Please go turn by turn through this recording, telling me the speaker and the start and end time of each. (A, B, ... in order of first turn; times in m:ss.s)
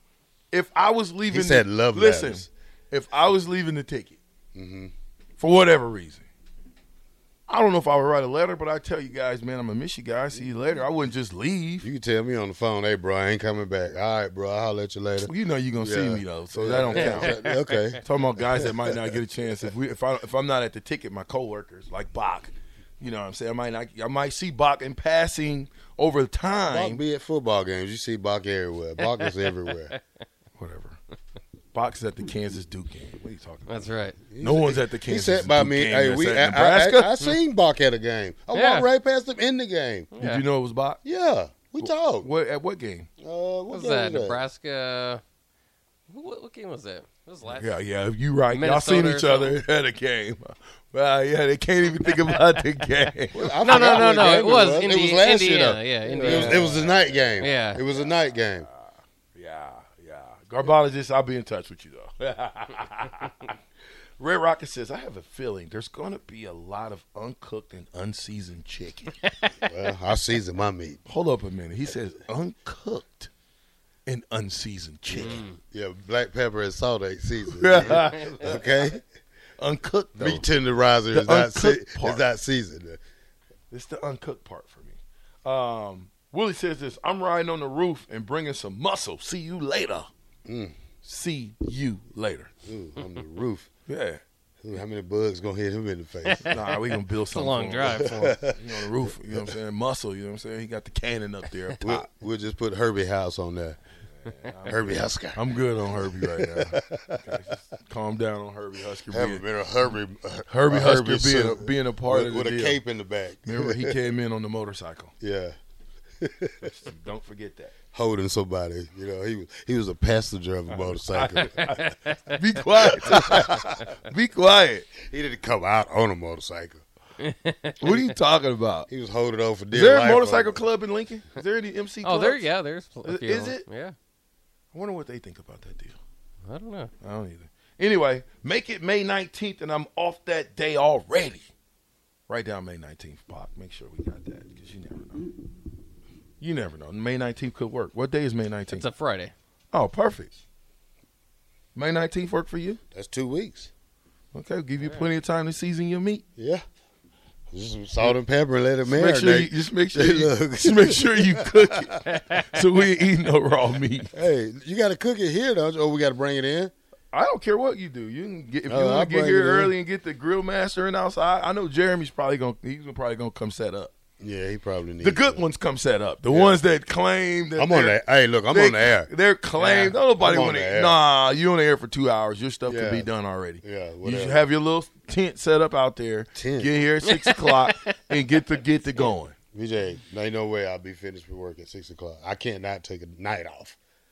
0:00.5-0:04.2 A
0:01.3-0:02.5 B
0:04.5-0:04.9 B
0:05.4-0:06.3 A
0:07.5-0:11.9 A
0:11.8-0:19.1 B
0:15.2-0:27.0 A
0:17.0-0:17.6 C
0:26.7-0:30.0 B
0:30.6-0:31.0 A
0:31.7-0:37.4 A
0:33.7-0:34.2 C
0:34.3-0:40.1 B
0:38.5-0:38.9 C
0:40.1-0:40.4 C
0:40.2-0:41.0 A
0:41.0-0:42.3 B
0:41.8-0:43.1 A
0:43.2-0:44.4 B
0:43.7-0:45.2 C
0:46.1-0:47.8 C
0:47.5-0:54.1 A
0:48.5-0:49.6 C
0:53.3-0:58.7 B
0:53.6-0:56.8 C
0:56.1-1:03.6 A
0:57.4-0:57.8 C
1:04.2-1:09.6 A
1:09.6-1:11.0 B
1:11.1-1:13.3 A
1:14.1-1:15.4 A
1:15.1-1:15.6 C
1:15.2-1:19.0 B
1:17.5-1:18.9 A
1:19.6-1:20.4 A
1:20.2-1:23.0 B
1:21.1-1:22.2 A
1:23.7-1:30.1 A
1:30.4-1:30.8 B
1:31.0-1:32.5 A
1:32.6-1:33.7 B
1:33.9-1:34.2 A
1:34.6-1:36.6 B
1:36.3-1:38.4 C
1:36.4-1:42.0 A
1:37.9-1:39.5 B
1:41.8-1:43.8 B
1:44.2-1:49.5 A
1:44.6-1:47.2 B
1:49.1-1:54.0 B
1:50.5-1:52.8 A
1:53.4-1:55.1 A
1:55.2-1:55.6 B
1:56.2-1:56.7 B
1:56.6-1:57.7 A
1:57.9-2:01.9 B
2:00.7-2:04.9 A
2:01.6-2:02.1 C
2:02.9-2:03.8 B
2:05.0-2:06.8 B
2:07.2-2:08.0 C
2:07.8-2:08.9 A
2:08.9-2:10.6 B
2:09.7-2:12.5 A
2:12.0-2:14.0 C
2:13.0-2:13.6 A
2:14.7-2:16.0 A
2:16.4-2:16.9 C
2:17.0-2:21.5 A
2:22.3-2:25.3 A
2:26.4-2:28.9 A
2:28.7-2:29.3 C
2:29.7-2:30.4 A
2:31.8-2:32.8 A
2:32.9-2:33.7 B
2:34.3-2:36.2 A
2:36.4-2:36.6 B
2:37.5-2:41.9 B
2:38.8-2:44.1 A
2:44.1-2:46.7 B
2:47.1-2:53.9 A
2:48.7-2:49.7 B
2:54.2-2:55.4 B
2:55.0-2:58.0 A
2:56.3-2:56.6 B
2:57.6-2:59.1 B
2:58.5-3:09.4 A
2:59.6-3:00.0 C
3:00.2-3:01.0 B
3:02.7-3:03.1 B
3:03.6-3:04.4 B
3:06.4-3:06.7 B
3:07.1-3:08.0 C
3:09.5-3:13.8 B